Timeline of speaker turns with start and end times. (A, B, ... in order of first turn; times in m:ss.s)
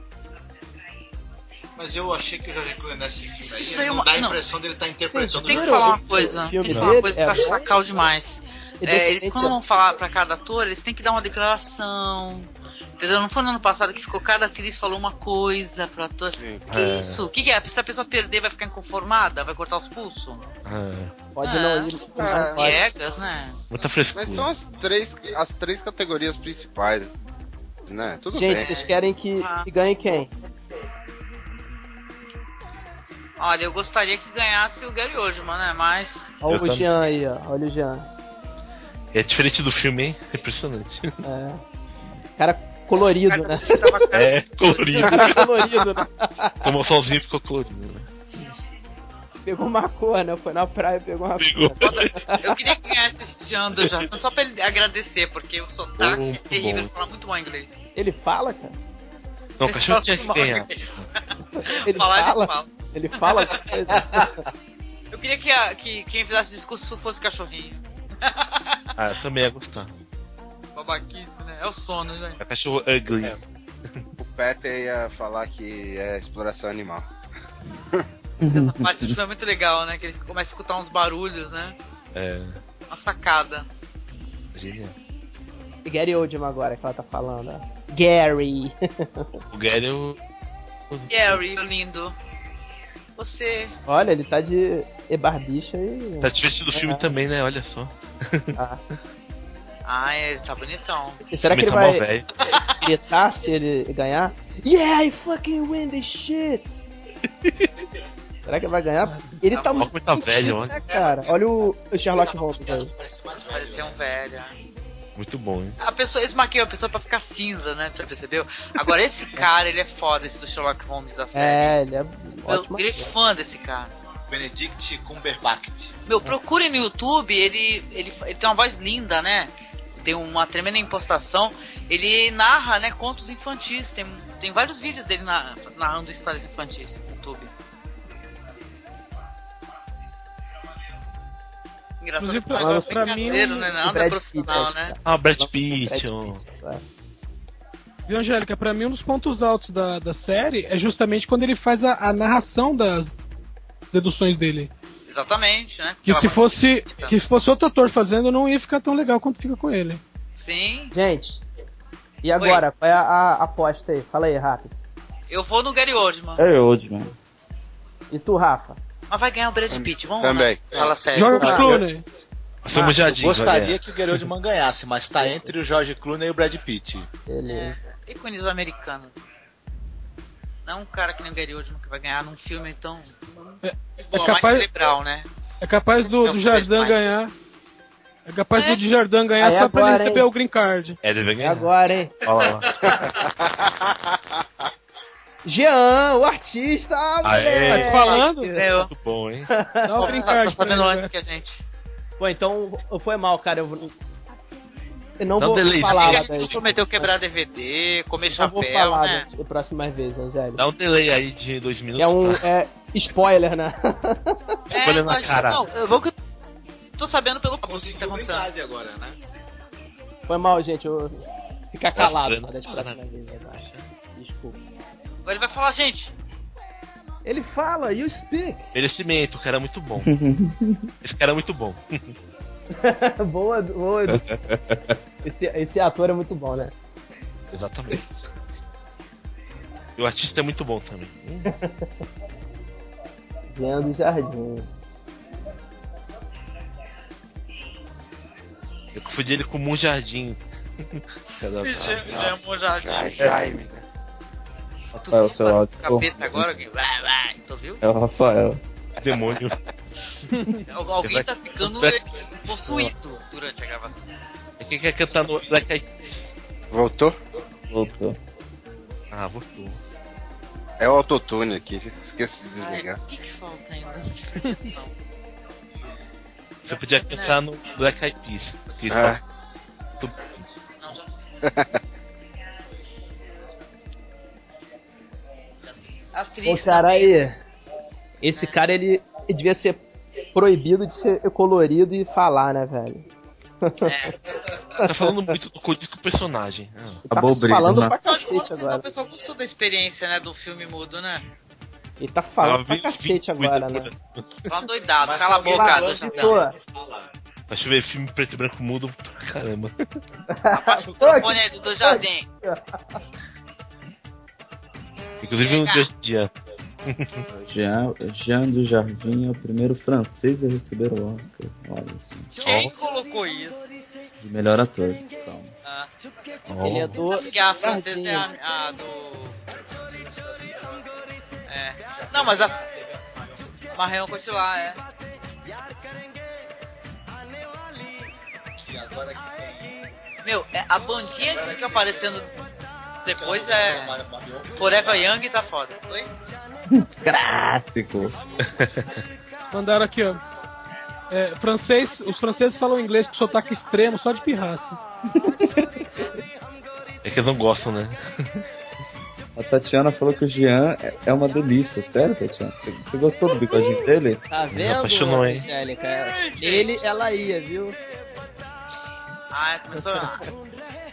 0:01.8-0:05.9 A
0:03.4-0:04.4 B
0:05.1-0:07.7 C
0:05.4-0:20.5 B
0:06.7-0:07.0 D
0:08.8-0:09.6 C
0:16.4-0:16.6 E
0:16.7-0:17.2 D
0:20.6-0:21.1 D
0:21.3-0:22.8 C
0:21.4-0:23.6 B
0:22.2-0:22.8 E
0:23.7-0:24.5 D
0:24.1-0:27.1 E
0:27.8-0:28.7 E
0:28.3-0:30.3 C
0:28.5-0:29.7 B
0:33.4-0:36.3 B
0:36.4-0:38.1 C
0:36.5-0:36.9 D
0:39.1-0:41.2 D
0:41.2-0:41.6 C
0:42.4-0:44.0 C
0:42.9-0:45.4 B
0:44.1-0:45.5 D
0:45.0-0:46.7 C
0:46.6-0:48.0 D
0:49.4-0:52.5 C
0:51.4-0:52.1 D
0:51.8-0:57.8 B
0:56.0-0:56.9 D
0:58.0-0:58.8 C
0:59.6-1:01.0 D
0:59.7-1:03.7 B
1:01.6-1:04.4 C
1:05.1-1:08.9 B
1:09.0-1:09.9 D
1:10.7-1:12.4 B
1:12.4-1:13.4 D
1:14.2-1:17.0 E
1:18.4-1:19.1 F
1:18.4-1:21.8 B
1:22.1-1:22.6 D
1:22.9-1:23.7 B
1:24.5-1:24.9 D
1:25.8-1:29.4 C
1:29.5-1:30.2 D
1:30.9-1:31.4 D
1:31.1-1:32.2 B
1:33.2-1:33.7 B
1:33.9-1:37.1 C
1:36.2-1:38.5 D
1:38.6-1:38.8 C
1:39.8-1:41.2 B
1:41.3-1:42.0 C
1:41.4-1:42.3 D
1:42.4-1:42.8 B
1:42.7-1:46.8 C
1:47.4-1:47.7 D
1:48.5-1:52.9 C
1:49.5-1:49.9 B
1:49.8-1:50.8 D
1:50.9-1:51.4 A
1:52.1-1:54.0 A
1:53.5-1:54.5 B
1:55.2-1:55.8 D
1:55.8-2:01.7 B
2:01.3-2:03.1 C
2:02.5-2:03.9 B
2:04.3-2:05.9 A
2:06.1-2:17.5 B
2:22.0-2:24.9 B
2:22.2-2:23.7 G
2:22.6-2:26.8 C
2:25.0-2:26.4 D
2:28.1-2:33.1 G
2:33.9-2:34.7 G
2:35.1-2:37.2 B
2:36.0-2:40.0 G
2:40.4-2:40.9 B
2:40.9-2:41.4 C
2:42.2-2:44.7 C
2:42.4-2:42.6 B
2:45.3-2:46.4 B
2:46.4-2:47.1 F
2:48.1-2:48.8 C
2:49.1-2:51.6 B
2:49.7-2:50.7 E
2:51.1-2:52.0 G
2:51.3-2:51.8 C
2:52.6-2:54.2 D
2:52.7-2:53.0 C
2:53.1-2:57.1 A
2:55.2-2:55.5 C
2:57.3-2:57.8 C
2:57.4-2:59.1 B
3:00.6-3:03.2 B
3:03.6-3:04.7 G
3:04.0-3:05.3 B
3:05.6-3:07.3 G
3:06.0-3:07.0 B
3:08.2-3:11.0 G
3:08.5-3:08.8 B
3:09.4-3:10.3 C
3:11.0-3:11.7 D
3:11.4-3:12.1 C
3:12.2-3:12.7 D
3:12.8-3:13.9 E
3:15.4-3:18.6 C
3:17.2-3:18.2 D
3:17.7-3:18.5 G
3:18.5-3:18.9 B
3:18.9-3:19.5 D
3:19.5-3:20.3 C
3:19.8-3:21.1 G
3:20.0-3:21.6 B
3:22.2-3:23.9 C
3:25.2-3:27.1 C
3:25.4-3:26.7 D
3:25.8-3:29.2 B
3:28.4-3:30.6 C
3:30.6-3:32.4 D
3:32.0-3:34.6 C
3:34.7-3:36.1 B
3:34.7-3:35.6 D
3:37.0-3:38.5 B
3:37.6-3:39.2 A
3:40.3-3:41.2 C
3:41.7-3:43.6 C
3:41.9-3:43.0 D
3:43.6-3:43.8 D
3:44.1-3:44.6 C
3:45.2-3:46.1 B
3:47.2-3:48.6 C
3:48.7-3:50.1 D
3:50.0-3:50.8 F
3:51.0-3:52.1 D
3:52.7-3:54.2 C
3:54.5-3:55.0 F
3:55.2-3:56.7 C
3:57.5-3:58.1 D
4:00.0-4:01.5 D
4:01.5-4:01.9 C
4:03.5-4:04.7 C
4:08.9-4:12.3 D
4:11.6-4:13.3 B
4:12.8-4:13.8 E
4:15.0-4:17.8 B
4:15.0-4:16.5 F
4:17.8-4:18.6 F
4:19.0-4:19.6 D
4:20.6-4:24.0 B
4:21.0-4:22.0 D
4:24.6-4:26.2 D
4:26.7-4:27.2 E
4:27.7-4:28.2 F
4:29.1-4:29.8 D
4:30.8-4:33.0 E
4:32.6-4:34.9 B
4:36.7-4:39.2 D
4:36.7-4:37.4 B
4:38.9-4:39.2 E
4:40.0-4:40.5 D
4:40.8-4:41.1 B
4:41.4-4:41.8 E
4:46.1-4:47.2 B
4:46.4-4:47.4 C
4:48.2-4:49.8 C
4:48.3-4:48.6 B
4:50.3-4:53.0 C
4:53.6-4:54.1 C
4:53.8-4:54.2 B
4:54.8-4:55.3 C
4:54.8-4:57.0 D
4:57.1-4:58.8 C
4:57.1-4:58.0 F
4:58.0-5:01.2 B
5:02.0-5:03.9 C
5:02.4-5:04.2 D
5:04.5-5:06.4 B
5:05.0-5:07.1 A
5:05.5-5:06.5 C
5:07.5-5:09.7 D
5:10.3-5:13.0 C
5:10.5-5:12.3 B
5:15.2-5:16.3 D
5:15.4-5:15.9 B
5:16.8-5:17.2 D
5:17.3-5:22.3 F
5:22.4-5:23.6 B
5:22.4-5:22.7 D
5:24.2-5:25.5 F
5:25.6-5:25.9 B
5:26.5-5:27.0 D
5:26.6-5:28.3 C
5:27.1-5:29.4 B
5:30.0-5:30.8 A
5:31.5-5:32.6 B
5:31.9-5:33.2 A
5:33.7-5:34.8 B
5:38.6-5:39.9 A
5:40.2-5:42.3 B
5:41.2-5:42.3 A
5:43.0-5:44.0 B
5:43.1-5:45.1 A
5:44.5-5:46.1 B
5:46.7-5:48.1 F
5:48.6-5:48.8 D
5:49.5-5:50.2 G
5:51.1-5:54.8 G
5:57.0-5:58.4 D
5:59.4-6:04.2 F
6:04.3-6:07.8 C
6:04.5-6:05.4 D
6:05.9-6:06.8 B
6:09.3-6:10.3 B
6:09.8-6:10.1 C